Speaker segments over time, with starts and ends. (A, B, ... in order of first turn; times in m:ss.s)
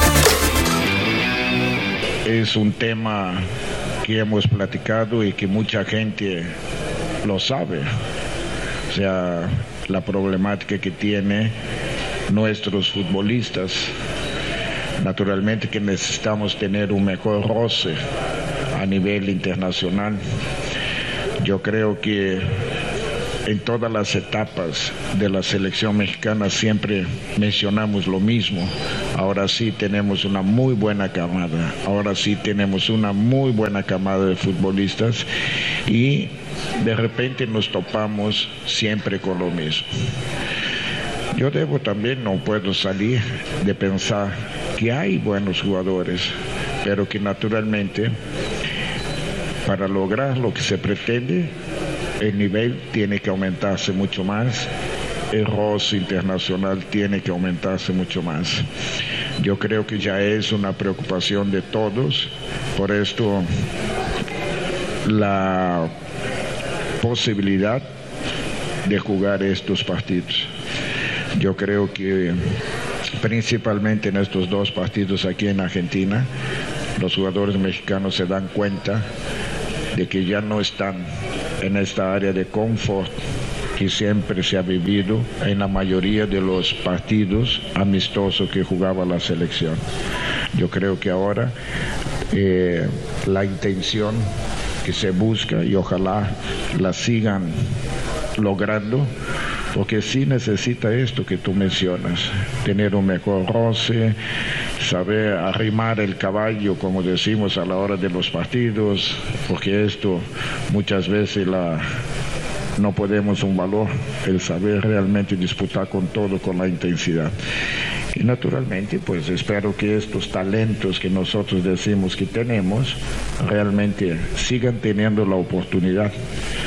0:02.2-0:03.5 A
0:04.0-0:06.5 A
0:07.2-0:07.9 A
0:08.9-0:11.5 A
0:12.3-0:13.9 A
0:15.0-0:18.0 A
0:18.7-0:20.2 A
0:21.4-0:22.5 A
0:23.4-0:35.3 A
0:35.8-0:39.9 A
0:41.3-0:48.1 A
0:49.6-0:51.5 A
0:52.2-0:54.7 A
0:55.3-0:58.6 A
0:59.4-1:03.5 A
1:05.0-1:05.9 A
1:07.0-1:07.8 A
1:08.8-1:10.5 A
1:11.3-1:12.4 A
1:13.2-1:16.3 A
1:17.0-1:19.0 A
1:19.9-1:21.0 A
1:21.6-1:23.1 A
1:23.7-1:29.8 A
1:30.5-1:31.5 A
1:32.3-1:34.2 A
1:34.8-1:37.5 A
1:38.4-1:39.1 A
1:39.7-1:44.2 A
1:44.8-1:51.8 A
1:52.8-1:57.3 A
1:58.1-2:06.1 A